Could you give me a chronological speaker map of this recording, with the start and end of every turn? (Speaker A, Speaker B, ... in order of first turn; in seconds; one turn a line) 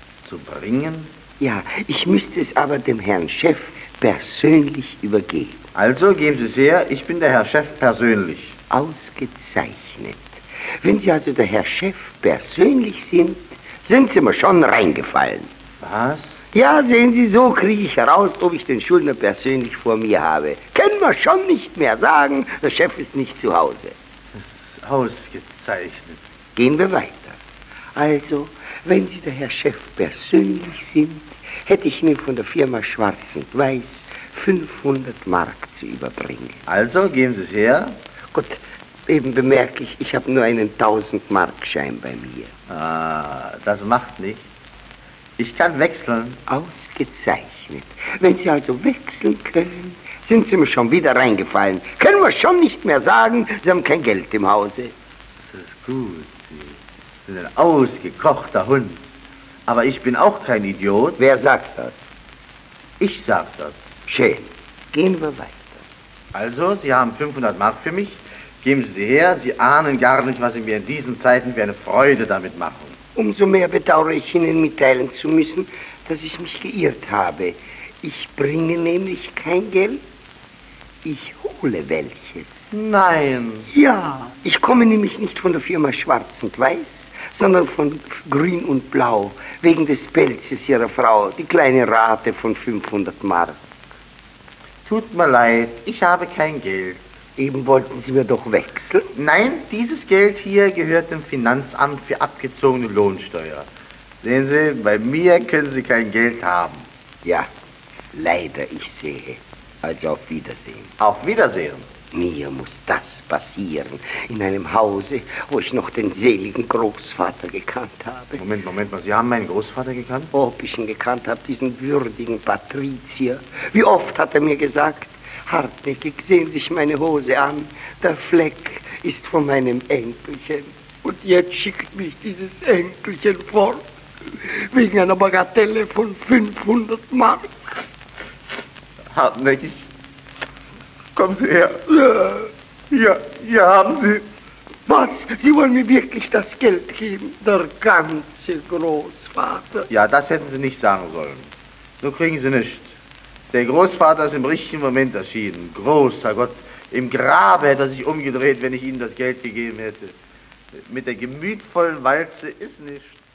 Speaker A: 0.2-1.1
Speaker B: 1.4-5.6
Speaker A: 5.7-8.6
Speaker B: 8.7-15.5
Speaker A: 15.8-16.4
Speaker B: 16.5-23.9
Speaker A: 24.4-26.2
Speaker B: 26.6-27.4
Speaker B: 27.9-36.6
Speaker A: 36.7-38.0
Speaker B: 38.3-42.5
Speaker A: 42.7-44.4
Speaker A: 45.4-46.4
Speaker B: 46.5-54.9
Speaker A: 55.5-59.0
Speaker A: 59.7-61.2
Speaker B: 61.2-62.1
Speaker A: 63.0-63.8
Speaker B: 64.1-65.8
Speaker A: 66.3-73.0
Speaker B: 73.2-80.0
Speaker B: 81.0-82.5
Speaker A: 82.7-83.7
Speaker B: 83.7-93.6
Speaker A: 94.8-97.0
Speaker B: 97.4-99.1
Speaker A: 99.1-103.7
Speaker A: 104.2-106.9
Speaker B: 107.2-107.5
Speaker B: 108.1-110.9
Speaker A: 111.0-111.9
Speaker B: 112.1-118.4
Speaker A: 118.3-120.3
Speaker B: 120.3-133.8
Speaker B: 134.3-137.5
Speaker A: 139.1-139.8
Speaker A: 141.2-142.3
Speaker A: 142.9-144.2
Speaker B: 144.9-149.9
Speaker A: 149.9-151.5
Speaker A: 152.0-152.9
Speaker A: 153.5-160.1
Speaker A: 160.9-163.2